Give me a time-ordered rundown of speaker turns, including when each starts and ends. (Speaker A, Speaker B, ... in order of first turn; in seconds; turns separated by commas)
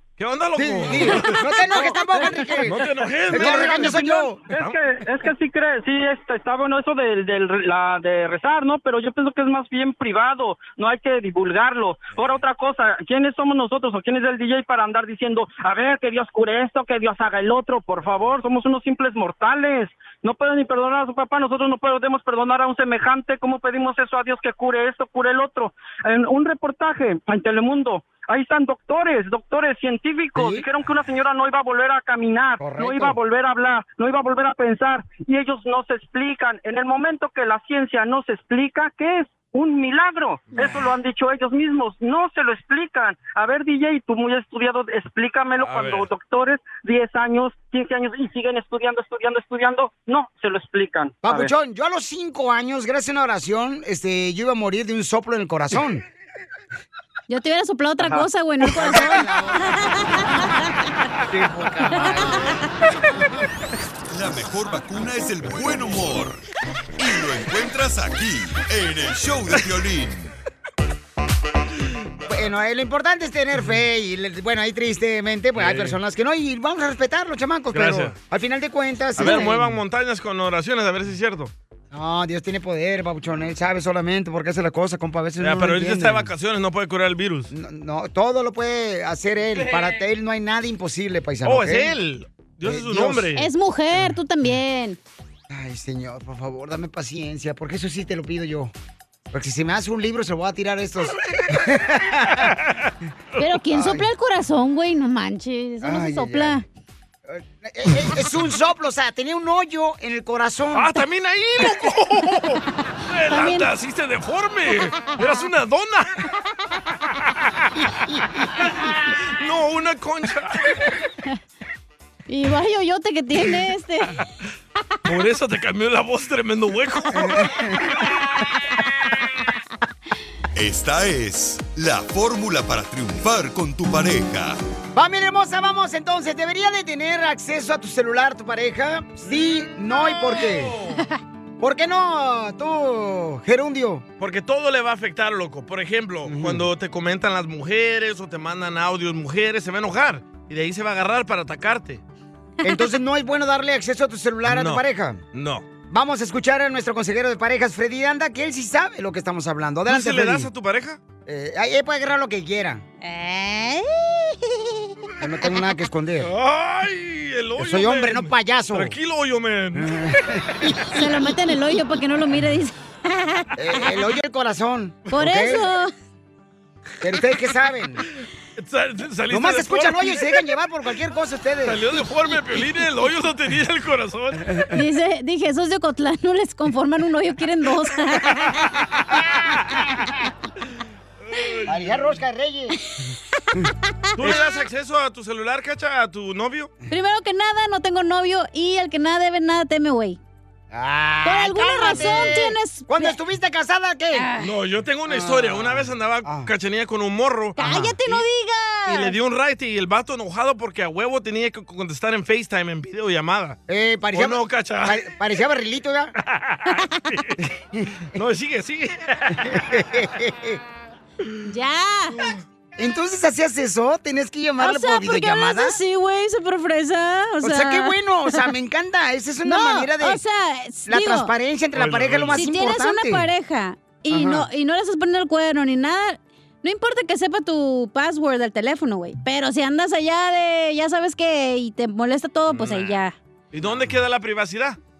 Speaker A: 0.2-1.3, Speaker B: 0.6-4.4, Speaker A: 2.5-4.9, Speaker C: 3.3-51.5, Speaker B: 30.4-30.6, Speaker B: 32.6-33.2, Speaker A: 40.5-40.9, Speaker A: 45.6-46.1, Speaker B: 51.2-56.0, Speaker D: 57.3-60.6, Speaker B: 58.6-60.4, Speaker B: 61.3-62.6, Speaker D: 62.0-62.3, Speaker E: 64.1-66.4, Speaker E: 67.0-70.3, Speaker B: 72.3-79.8, Speaker A: 75.6-76.0, Speaker A: 77.7-78.1, Speaker A: 79.2-81.5, Speaker B: 81.9-86.3, Speaker A: 85.4-87.5, Speaker B: 87.5-91.9, Speaker A: 89.5-89.9, Speaker A: 91.4-93.5, Speaker B: 92.6-93.3, Speaker D: 93.3-95.0, Speaker B: 95.5-98.7, Speaker B: 99.3-102.5, Speaker D: 103.4-106.6, Speaker B: 103.7-104.1, Speaker B: 105.8-106.6, Speaker B: 107.3-110.9, Speaker A: 110.7-116.1, Speaker D: 113.3-113.7, Speaker A: 118.6-120.6, Speaker D: 122.3-124.1, Speaker A: 125.1-127.5, Speaker B: 127.2-127.8, Speaker E: 130.5-134.6, Speaker B: 134.9-140.8, Speaker A: 139.2-141.0, Speaker B: 141.6-144.0, Speaker A: 144.2-152.0, Speaker B: 146.2-146.7, Speaker B: 152.6-155.2, Speaker A: 154.4-155.7, Speaker B: 155.9-160.5, Speaker A: 159.9-161.0, Speaker B: 161.2-162.8, Speaker D: 163.0-164.9, Speaker B: 165.2-166.3, Speaker A: 166.2-170.0, Speaker B: 167.6-168.9, Speaker B: 169.8-170.4, Speaker D: 170.9-174.0, Speaker B: 173.6-175.7, Speaker D: 175.1-175.9, Speaker B: 177.0-178.0, Speaker A: 178.0-180.4, Speaker B: 179.3-181.9, Speaker A: 181.6-184.6, Speaker D: 184.7-188.7, Speaker A: 191.3-192.0, Speaker B: 191.7-192.8, Speaker D: 194.2-194.4, Speaker A: 194.2-196.7, Speaker D: 196.9-200.2, Speaker B: 200.7-204.3, Speaker D: 201.2-203.2, Speaker D: 204.1-204.5, Speaker A: 204.4-208.2, Speaker B: 205.1-206.5, Speaker D: 207.6-209.1, Speaker A: 208.9-213.6, Speaker B: 213.7-216.1, Speaker A: 214.1-215.0, Speaker A: 216.3-217.4, Speaker B: 217.4-217.9, Speaker A: 218.1-219.6, Speaker B: 219.5-220.6, Speaker D: 221.5-222.2, Speaker B: 222.8-225.8, Speaker D: 224.6-228.4, Speaker B: 227.4-230.2, Speaker D: 229.4-231.3, Speaker B: 230.9-233.3, Speaker A: 231.7-232.4, Speaker D: 232.3-243.2, Speaker B: 234.1-234.5, Speaker A: 242.5-243.0, Speaker A: 243.5-244.8